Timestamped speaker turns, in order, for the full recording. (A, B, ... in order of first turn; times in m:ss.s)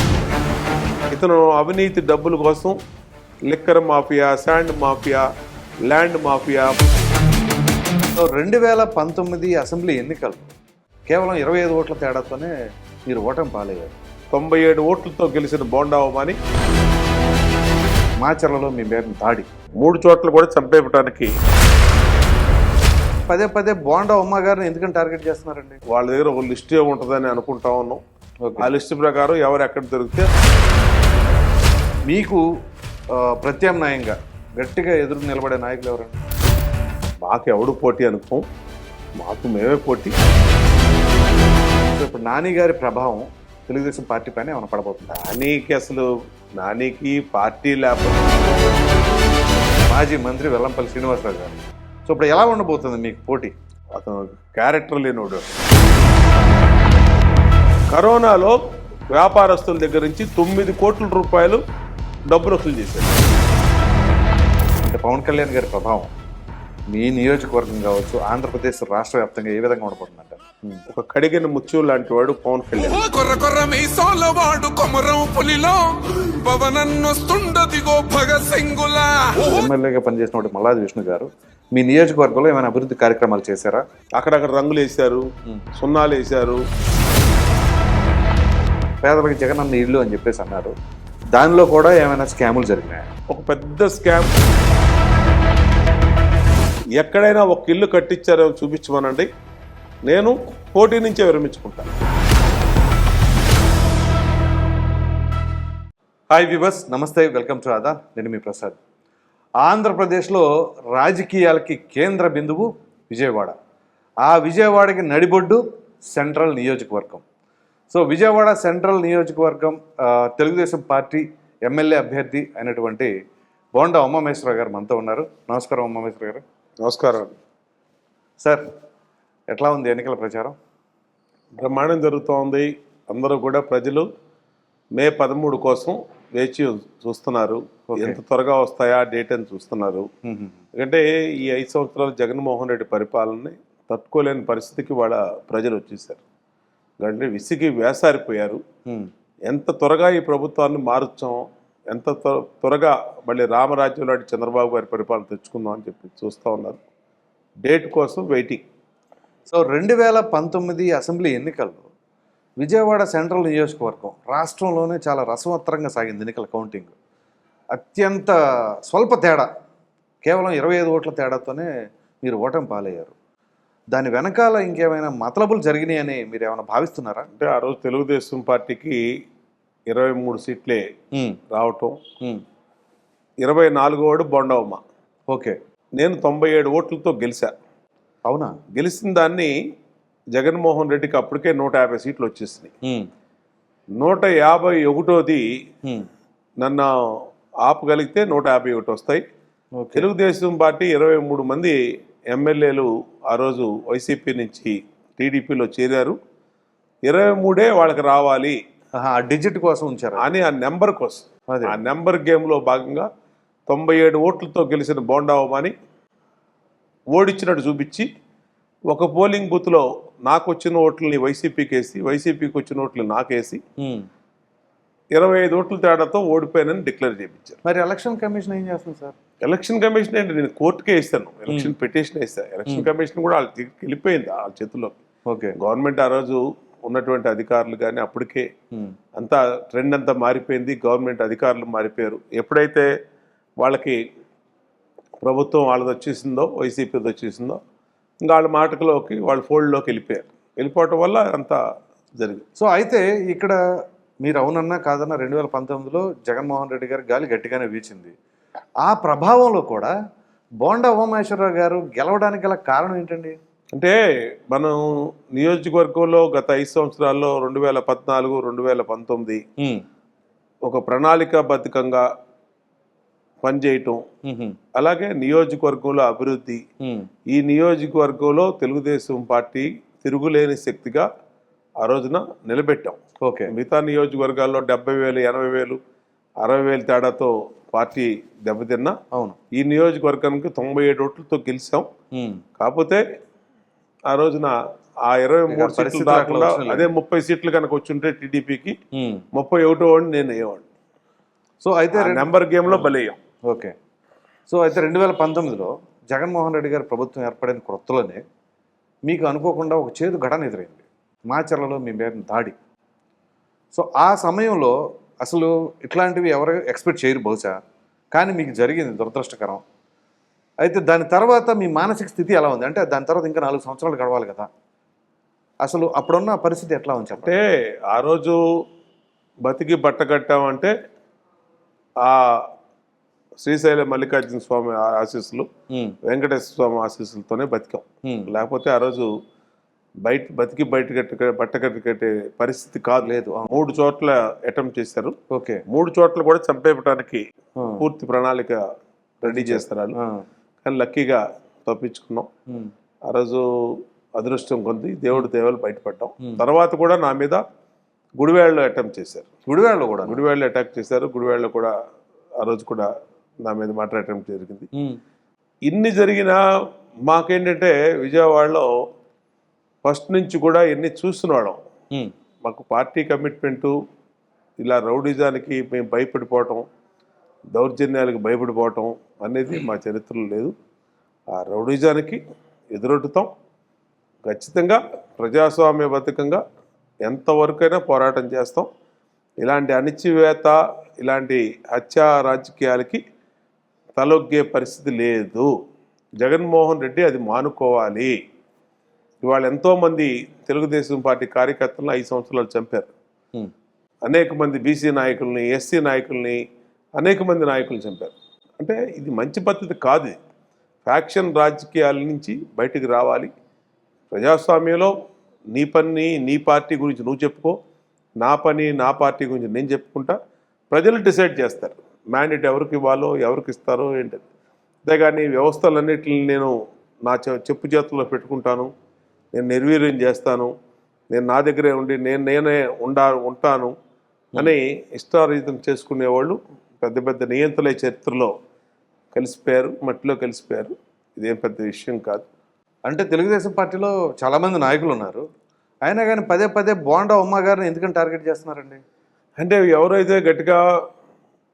0:01.1-0:02.8 A
0:03.5-0:05.3 A
0:05.9-0:06.8 A
0:08.2-0:10.5 B
0:11.1-0:12.5 B
0:13.0-0:14.0 B
0:14.3-0:16.4 A
0:18.2-0:19.5 B
0:19.8-0:21.3 A
0:23.3-0:25.8 B
0:25.9-0:28.0 A
0:28.4-0:28.7 B
0:28.6-0:30.3 A
0:32.1-0:32.5 B
0:33.1-0:36.2 B
0:37.2-0:38.4 A
0:39.2-0:40.2 A
0:42.0-0:45.2 B
0:45.1-0:48.5 A
0:49.9-0:53.5 B
0:54.0-0:55.5 A
0:57.9-0:58.6 A
0:59.1-1:01.6 A
1:02.3-1:03.2 A
1:04.8-1:06.1 B
1:06.9-1:10.8 B
1:10.9-1:13.0 A
1:12.8-1:19.7 C
1:19.4-1:23.8 B
1:24.2-1:26.6 A
1:29.0-1:30.7 B
1:31.3-1:33.1 B
1:33.3-1:34.4 A
1:37.0-1:39.3 A
1:40.1-1:41.9 A
1:46.3-1:48.8 B
1:49.6-1:53.6 B
1:54.2-1:57.2 B
1:57.9-2:03.1 B
2:03.8-2:06.4 B
2:06.8-2:07.3 A
2:08.4-2:08.7 B
2:09.5-2:10.6 B
2:11.6-2:14.1 A
2:15.0-2:20.1 A
2:17.9-2:18.2 B
2:20.2-2:20.6 B
2:20.8-2:26.2 A
2:27.0-2:28.6 A
2:29.5-2:36.8 A
2:37.6-2:38.6 A
2:39.5-2:41.9 B
2:42.6-2:46.9 B
2:47.7-2:49.5 B
2:50.2-2:51.7 B
2:52.2-2:53.1 B
2:53.9-2:57.3 B
2:57.3-2:59.0 A
2:59.9-3:00.9 A
3:01.1-3:01.4 B
3:01.5-3:02.0 A
3:03.4-3:04.8 A
3:05.3-3:05.6 B
3:06.0-3:07.5 A
3:08.3-3:08.6 B
3:08.7-3:09.6 A
3:10.3-3:12.7 A
3:12.8-3:13.1 B
3:14.0-3:15.4 A
3:16.6-3:19.2 A
3:19.8-3:20.1 B
3:20.0-3:21.8 A
3:22.3-3:26.2 A
3:27.1-3:28.6 A
3:29.0-3:30.2 B
3:30.2-3:33.1 A
3:31.5-3:31.8 B
3:33.7-3:35.7 A
3:37.1-3:38.1 A
3:38.9-3:43.6 A
3:43.8-3:44.1 B
3:45.1-3:47.6 A
3:47.6-3:49.2 B
3:49.4-3:55.0 A
3:51.5-3:51.7 B
3:55.3-3:55.6 B
3:55.6-3:58.5 A
3:59.2-4:02.9 A
4:03.6-4:04.0 A
4:05.2-4:07.6 A
4:08.2-4:11.6 A
4:12.2-4:12.4 A
4:12.6-4:13.6 B
4:14.2-4:18.2 B
4:18.8-4:19.9 B
4:20.6-4:23.4 B
4:24.5-4:29.4 A
4:29.6-4:29.8 B
4:30.7-4:32.0 A
4:33.4-4:34.0 A
4:34.2-4:34.6 B
4:34.8-4:36.6 A
4:36.8-4:37.1 B
4:37.3-4:41.1 A
4:41.8-4:43.0 A
4:43.2-4:43.5 B
4:43.5-4:45.8 A
4:46.4-4:49.0 A
4:49.1-4:49.4 B
4:49.5-4:51.9 A
4:52.1-4:52.4 B
4:52.6-4:53.0 A
4:54.1-4:54.5 A
4:55.0-4:58.8 A
4:55.5-4:56.9 B
4:58.9-4:59.2 B
4:59.3-5:00.7 A
5:01.6-5:02.9 B
5:01.9-5:03.2 A
5:03.4-5:03.8 B
5:04.5-5:08.2 B
5:09.1-5:12.6 B
5:13.7-5:17.6 B
5:18.1-5:19.6 B
5:20.6-5:24.5 B
5:25.6-5:27.4 B
5:27.2-5:28.4 A
5:29.5-5:30.7 A
5:32.0-5:32.5 A
5:33.4-5:35.5 A
5:35.7-5:36.0 B
5:36.0-5:39.1 A
5:40.0-5:45.2 A
5:43.0-5:43.5 B
5:45.3-5:45.6 B
5:45.7-5:47.2 A
5:47.6-5:47.8 B
5:47.8-5:48.6 A
5:49.2-5:50.0 A
5:49.2-5:50.2 B
5:50.6-5:52.3 A
5:53.1-5:57.4 A
5:58.2-5:59.3 A
5:59.5-6:00.2 B
6:00.1-6:01.7 A
6:02.4-6:02.9 A
6:03.4-6:04.7 A
6:04.8-6:05.0 B
6:05.7-6:06.4 A
6:07.1-6:08.7 A
6:09.8-6:11.6 A
6:12.4-6:13.8 A
6:14.6-6:16.6 A
6:17.5-6:20.5 A
6:21.3-6:22.2 A
6:22.7-6:23.3 A
6:24.3-6:26.4 A
6:27.1-6:28.7 A
6:29.4-6:33.0 A
6:34.0-6:35.5 A
6:36.2-6:38.2 A
6:39.2-6:42.9 A
6:44.1-6:46.4 A
6:47.0-6:50.2 A
6:50.9-6:53.3 A
6:54.1-6:54.9 A
6:55.5-6:57.6 A
6:58.2-7:00.2 A
7:00.7-7:04.2 A
7:04.9-7:06.5 A
7:07.1-7:08.7 A
7:09.3-7:10.5 A
7:11.1-7:13.8 A
7:14.4-7:18.3 A
7:19.1-7:22.2 A
7:22.9-7:25.3 B
7:25.8-7:28.8 B
7:29.4-7:30.6 A